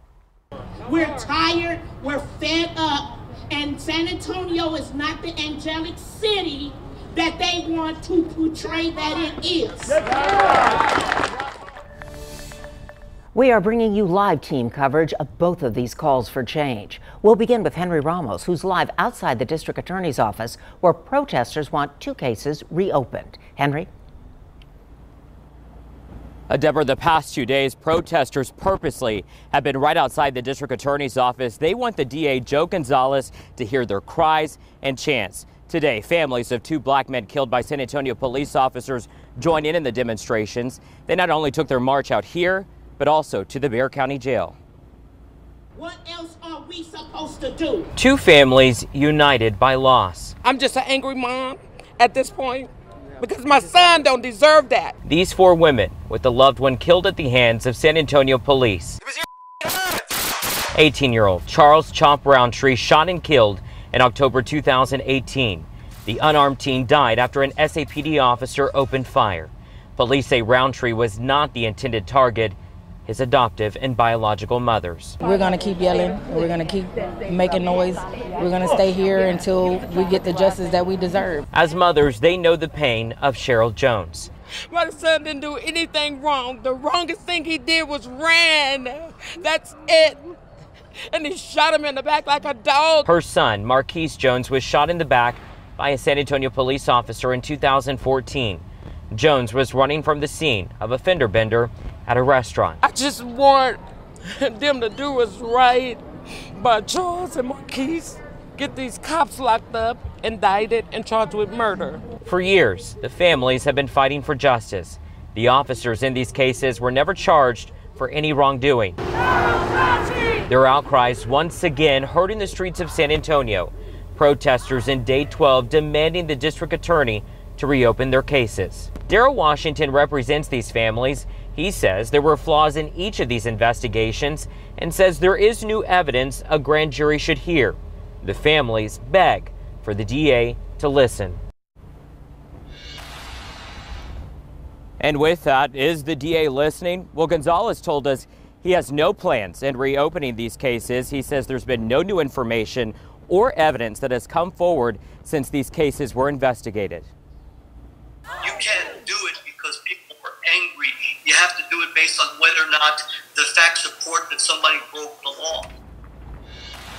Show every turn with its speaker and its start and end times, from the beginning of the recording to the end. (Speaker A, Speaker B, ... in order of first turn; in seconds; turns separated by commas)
Speaker A: 0.8-10.1, Speaker B: 13.3-23.9, Speaker C: 26.5-44.5, Speaker A: 45.7-47.9, Speaker C: 48.0-50.3, Speaker D: 50.4-54.9, Speaker C: 55.0-59.0, Speaker C: 60.7-75.2, Speaker E: 75.2-81.4, Speaker C: 81.5-84.3, Speaker D: 84.7-90.2, Speaker D: 91.1-93.0, Speaker C: 93.0-102.8, Speaker D: 102.8-112.0, Speaker C: 112.2-119.0, Speaker C: 120.5-141.4, Speaker C: 145.0-157.1, Speaker F: 158.4-165.7